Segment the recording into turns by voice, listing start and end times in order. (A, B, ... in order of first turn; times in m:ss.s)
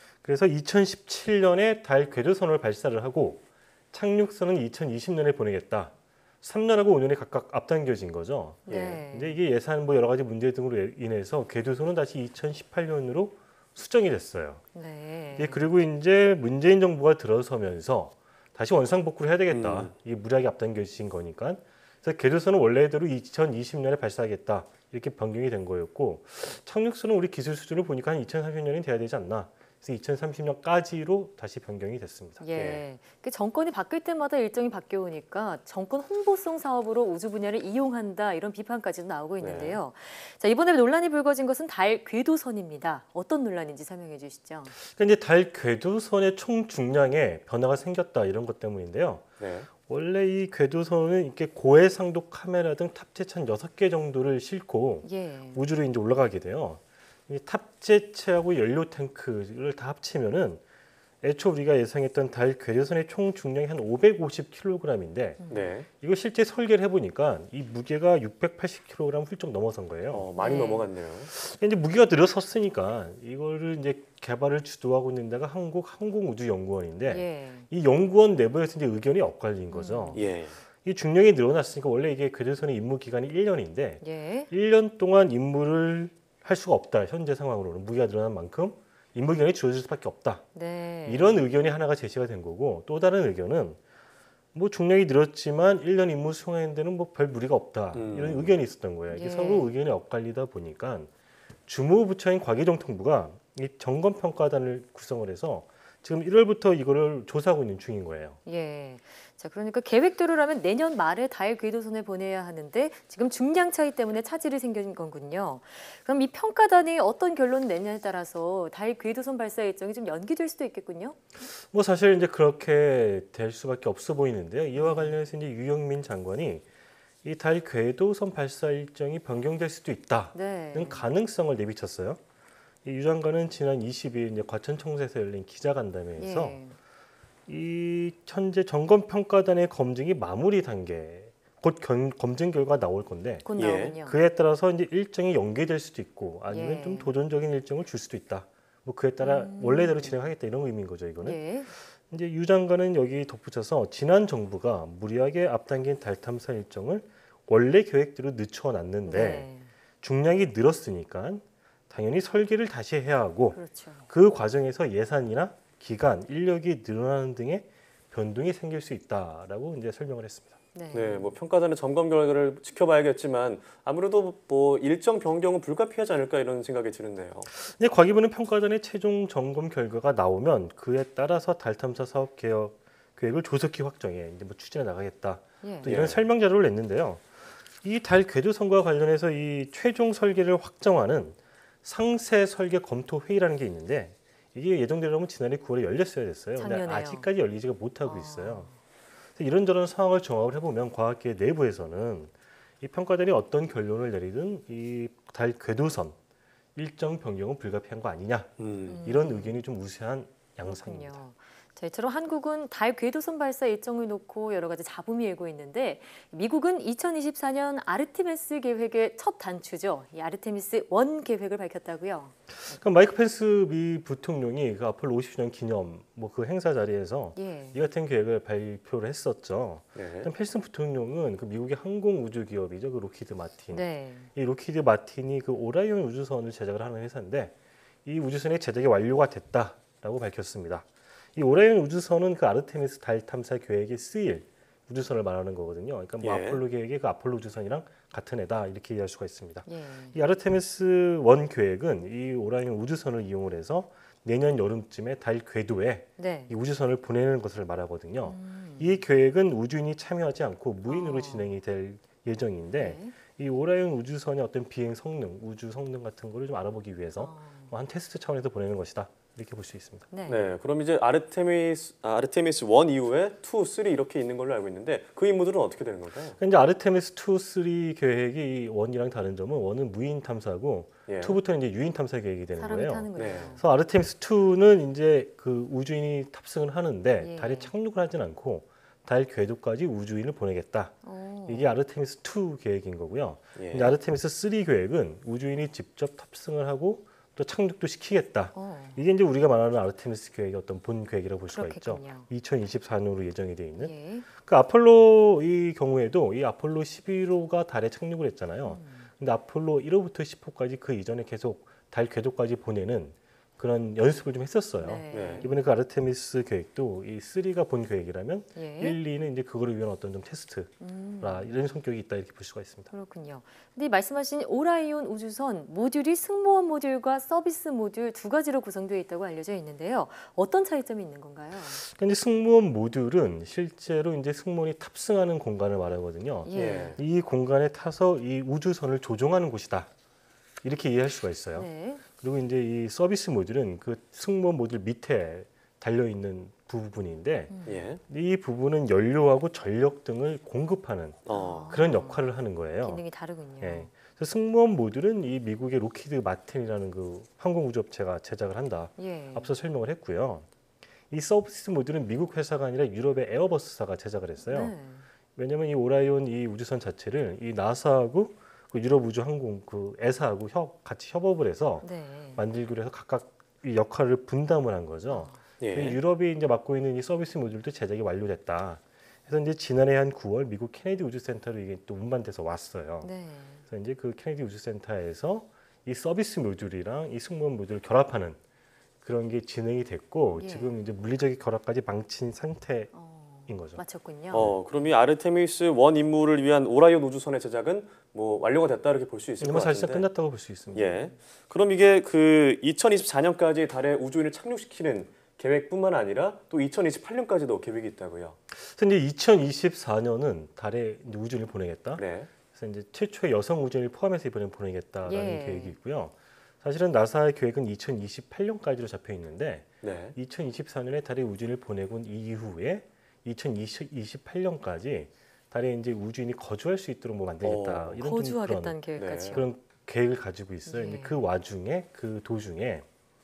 0:00.2-0:14.6 A
0:08.7-0:09.4 B
0:14.7-0:15.6 B
0:15.4-0:32.5 A
0:19.5-0:19.9 C
0:32.4-0:44.7 B
0:39.4-0:39.8 C
0:44.7-1:00.6 A
0:49.4-0:49.7 C
0:55.0-0:55.6 B
1:01.2-1:10.3 A
1:05.5-1:05.9 C
1:10.1-1:11.3 C
1:10.4-1:10.9 B
1:11.3-1:20.2 A
1:17.1-1:17.6 B
1:19.7-1:20.2 B
1:20.1-1:20.6 C
1:20.8-1:30.4 A
1:24.0-1:24.5 B
1:30.5-1:31.4 B
1:31.0-1:33.8 A
1:34.5-1:41.1 A
1:37.9-1:38.6 C
1:39.1-1:39.7 B
1:41.7-1:48.4 A
1:48.4-2:01.2 B
2:01.4-2:06.6 A
2:04.8-2:05.1 B
2:07.2-2:12.2 A
2:10.3-2:11.0 B
2:12.8-2:16.6 A
2:16.2-2:16.8 B
2:17.5-2:23.4 A
2:23.4-2:24.2 B
2:23.6-2:23.9 C
2:24.0-2:39.5 A
2:26.5-2:27.1 B
2:29.2-2:30.1 B
2:31.2-2:31.7 B
2:39.0-2:39.7 B
2:40.0-2:50.6 A
2:43.5-2:44.0 B
2:50.7-2:51.3 B
2:50.9-2:57.5 C
2:57.5-3:07.3 A
3:05.6-3:05.9 B
3:05.8-3:06.2 C
3:07.8-3:18.7 A
3:16.6-3:17.3 B
3:18.0-3:18.7 B
3:19.4-3:26.2 A
3:26.7-3:31.2 A
3:28.6-3:29.0 C
3:28.9-3:29.6 B
3:30.6-3:42.8 B
3:42.5-4:30.0 A
3:47.4-3:47.8 B
3:50.0-3:50.3 C
3:53.7-3:54.3 B
4:06.2-4:06.6 C
4:09.6-4:10.1 B
4:16.2-4:16.5 B
4:18.2-4:18.9 B
4:20.9-4:21.5 B
4:22.8-4:23.2 B
4:27.2-4:27.7 B
4:30.1-4:30.4 B
4:30.3-4:36.4 C
4:36.4-5:22.9 A
4:41.1-4:41.4 C
4:42.6-4:43.6 B
4:43.2-4:43.5 C
4:47.2-4:47.7 B
4:51.0-4:51.7 B
4:53.6-4:54.0 C
4:58.5-4:59.0 B
5:01.5-5:02.3 B
5:03.8-5:04.3 B
5:08.6-5:09.1 B
5:14.8-5:15.6 B
5:15.1-5:15.4 C
5:18.5-5:19.0 B
5:20.8-5:21.5 B
5:22.9-5:31.8 B
5:31.7-5:39.9 A
5:36.4-5:37.0 B
5:36.5-5:37.0 C
5:40.6-5:53.0 A
5:41.5-5:42.0 B
5:47.5-5:47.8 B
5:47.6-5:48.0 C
5:51.2-5:51.7 C
5:51.3-5:52.2 B
5:52.8-5:53.9 B
5:53.6-6:00.5 A
5:59.0-5:59.5 B
6:01.1-6:04.7 A
6:04.5-6:05.0 B
6:05.4-6:23.1 A
6:11.8-6:12.4 B
6:15.1-6:15.4 B
6:15.6-6:16.0 C
6:23.0-6:23.6 B
6:23.6-6:28.4 A
6:29.0-6:32.9 A
6:30.4-6:30.7 B
6:32.9-6:34.5 B
6:33.5-6:33.8 A
6:34.3-6:34.6 A
6:34.3-6:40.1 C
6:39.4-6:41.0 A
6:40.7-6:48.4 C
6:48.5-7:12.9 A
6:52.0-6:52.3 C
6:55.0-6:55.8 B
6:59.8-7:00.1 C
7:07.4-7:08.0 C
7:08.0-7:09.4 B
7:09.0-7:09.4 C
7:10.6-7:11.2 B